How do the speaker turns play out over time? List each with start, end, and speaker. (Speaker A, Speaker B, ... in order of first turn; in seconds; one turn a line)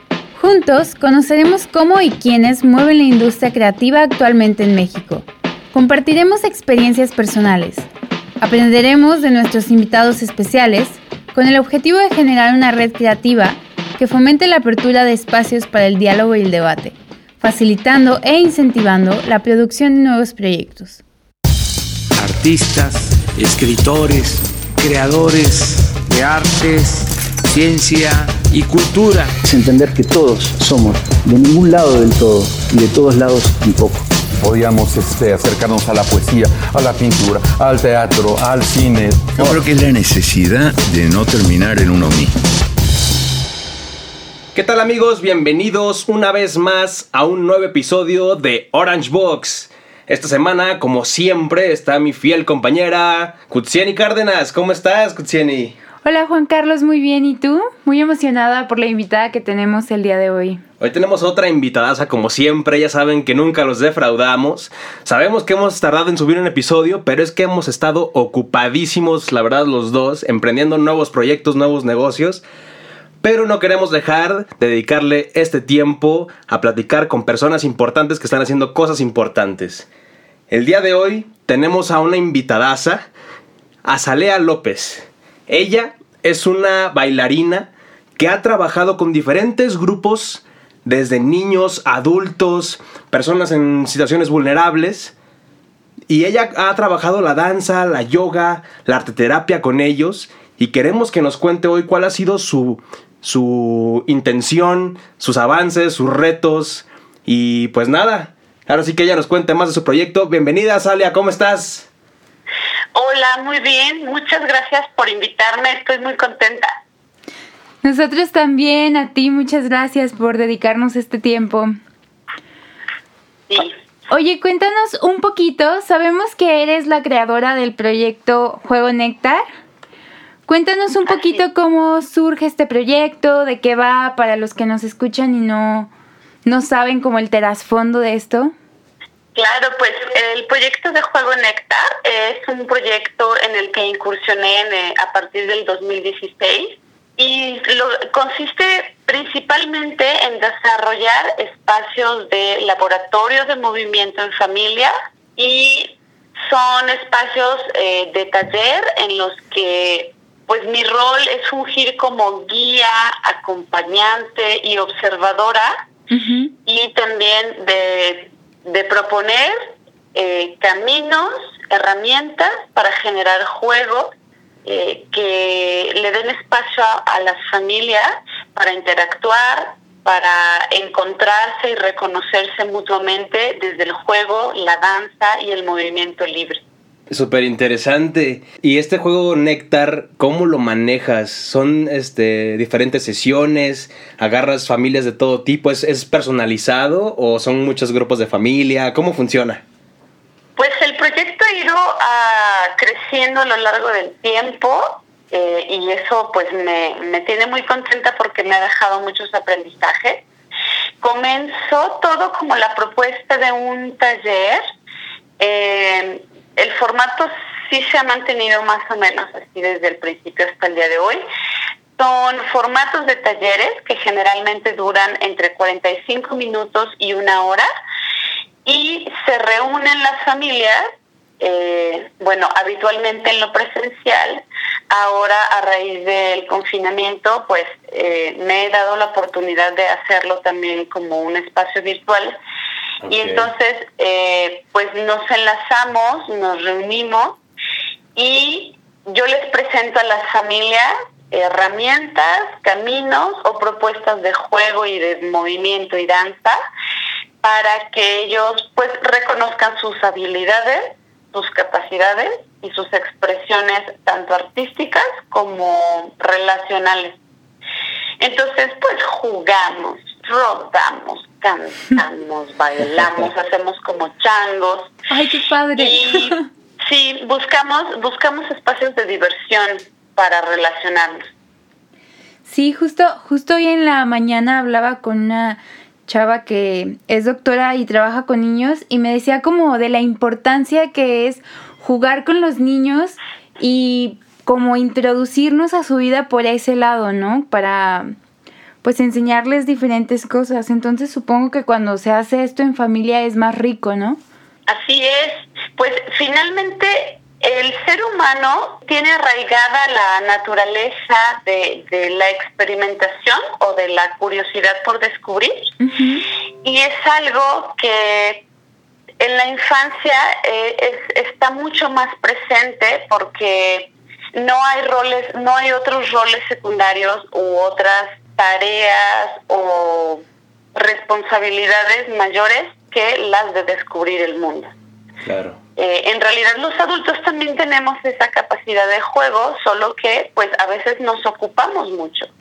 Speaker A: 0.3-7.9
Speaker A: 8.4-21.0
Speaker B: 22.1-29.3
Speaker C: 29.4-34.0
Speaker D: 34.4-39.5
Speaker E: 39.3-42.3
Speaker F: 44.5-55.8
Speaker A: 56.0-60.6
Speaker F: 60.8-72.4
Speaker F: 73.2-79.9
Speaker F: 80.5-83.1
Speaker F: 83.8-95.1
Speaker F: 96.1-111.9
Speaker G: 112.9-116.7
Speaker A: 117.8-121.7
Speaker G: 123.5-123.7
Speaker A: 124.1-129.4
Speaker A: 130.5-135.9
Speaker G: 131.0-131.4
Speaker A: 136.4-138.5
Speaker G: 139.3-165.8
Speaker A: 166.1-166.5
Speaker G: 166.6-174.1
Speaker G: 174.6-186.6
Speaker F: 187.1-199.6
Speaker G: 200.6-210.2
Speaker G: 211.0-214.6
Speaker G: 215.4-221.2
Speaker G: 222.0-227.7
Speaker G: 228.6-242.4
Speaker F: 243.0-243.5
Speaker G: 243.1-247.4
Speaker G: 248.1-256.6
Speaker G: 257.4-267.2
Speaker G: 268.2-274.9
Speaker A: 275.1-276.4
Speaker G: 275.8-281.3
Speaker A: 282.5-298.1
Speaker A: 298.8-304.2
Speaker G: 304.7-315.7
Speaker A: 315.8-316.2
Speaker G: 316.6-318.4
Speaker G: 319.2-330.2
Speaker G: 330.7-334.7
Speaker F: 335.2-335.6
Speaker G: 335.8-342.3